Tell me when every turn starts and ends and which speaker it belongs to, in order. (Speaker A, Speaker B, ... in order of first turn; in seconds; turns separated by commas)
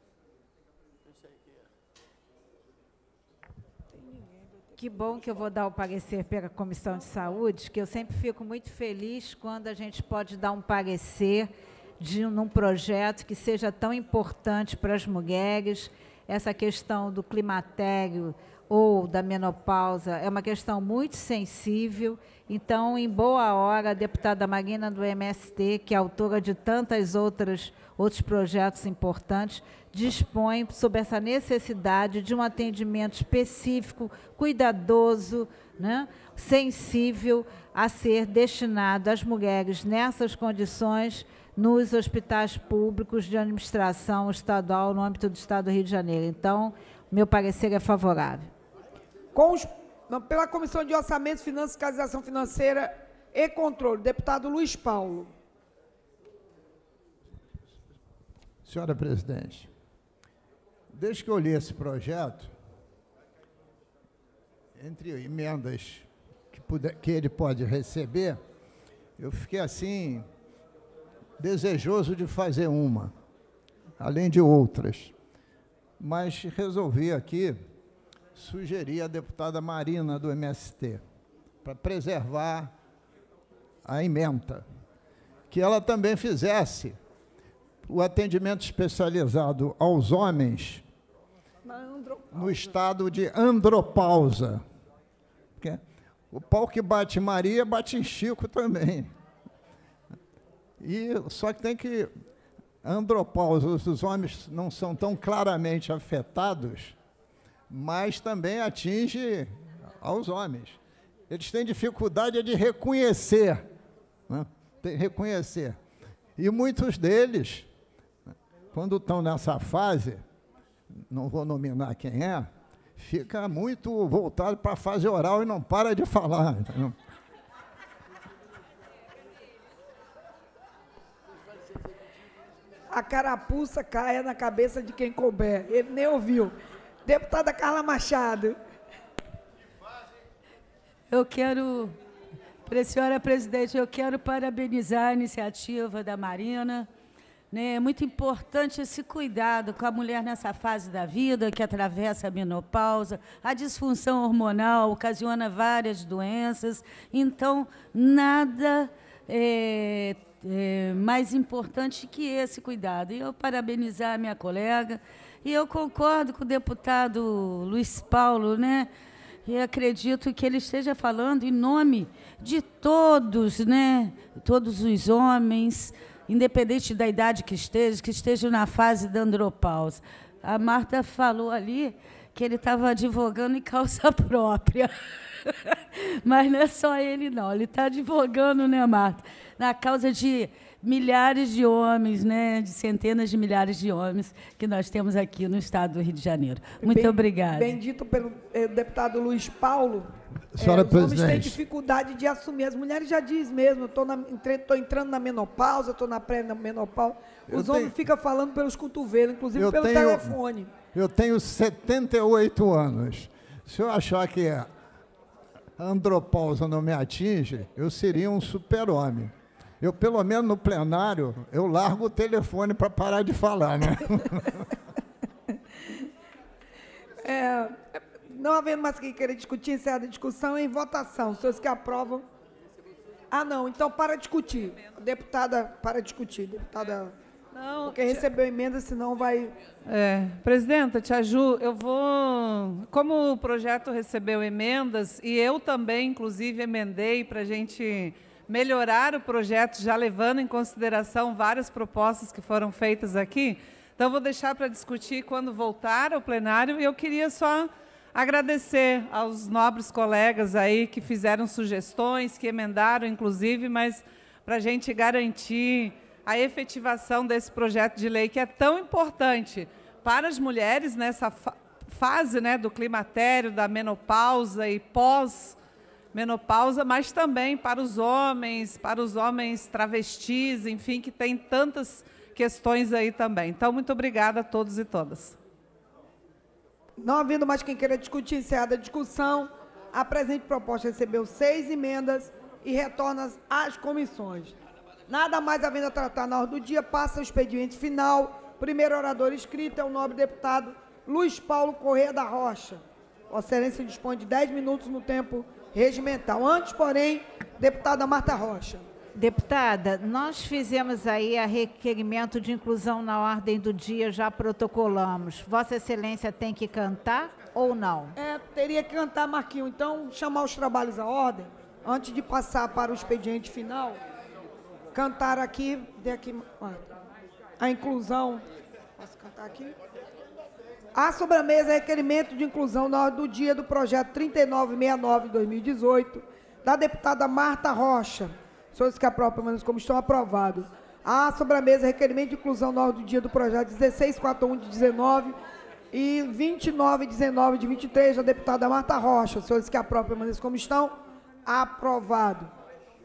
Speaker A: 4.8-48.5, Speaker B: 49.4-55.3, Speaker C: 58.6-59.7, Speaker C: 60.9-62.5, Speaker C: 64.8-68.4, Speaker C: 69.2-70.3, Speaker C: 71.4-73.1, Speaker C: 74.0-75.1, Speaker C: 76.0-77.6, Speaker C: 78.3-81.0, Speaker C: 81.6-82.7, Speaker C: 83.8-84.7, Speaker C: 85.5-87.0, Speaker C: 87.8-90.8, Speaker B: 91.7-92.5, Speaker C: 92.3-94.6, Speaker C: 95.6-99.1, Speaker C: 100.8-102.1, Speaker C: 102.8-107.0, Speaker C: 107.7-113.7, Speaker C: 114.3-115.8, Speaker C: 116.4-117.7, Speaker C: 118.7-120.2, Speaker C: 121.0-127.0, Speaker B: 132.9-136.5, Speaker B: 137.1-138.6, Speaker D: 141.1-142.0, Speaker D: 142.7-146.9, Speaker D: 147.5-168.9, Speaker D: 169.4-197.8, Speaker B: 196.8-210.7, Speaker C: 200.5-201.6, Speaker C: 207.5-207.9, Speaker C: 209.6-210.4, Speaker C: 210.9-214.7, Speaker C: 215.8-224.7, Speaker B: 227.2-232.2, Speaker B: 233.3-237.2, Speaker E: 237.5-238.3, Speaker B: 237.8-239.6, Speaker E: 239.8-275.6, Speaker E: 276.1-285.4, Speaker B: 287.0-294.6, Speaker B: 295.1-308.9, Speaker A: 309.2-318.1, Speaker B: 318.2-324.0, Speaker B: 324.9-327.0, Speaker B: 327.6-328.4, Speaker B: 329.0-329.8, Speaker B: 330.9-345.4, Speaker B: 345.9-350.9, Speaker B: 351.5-352.5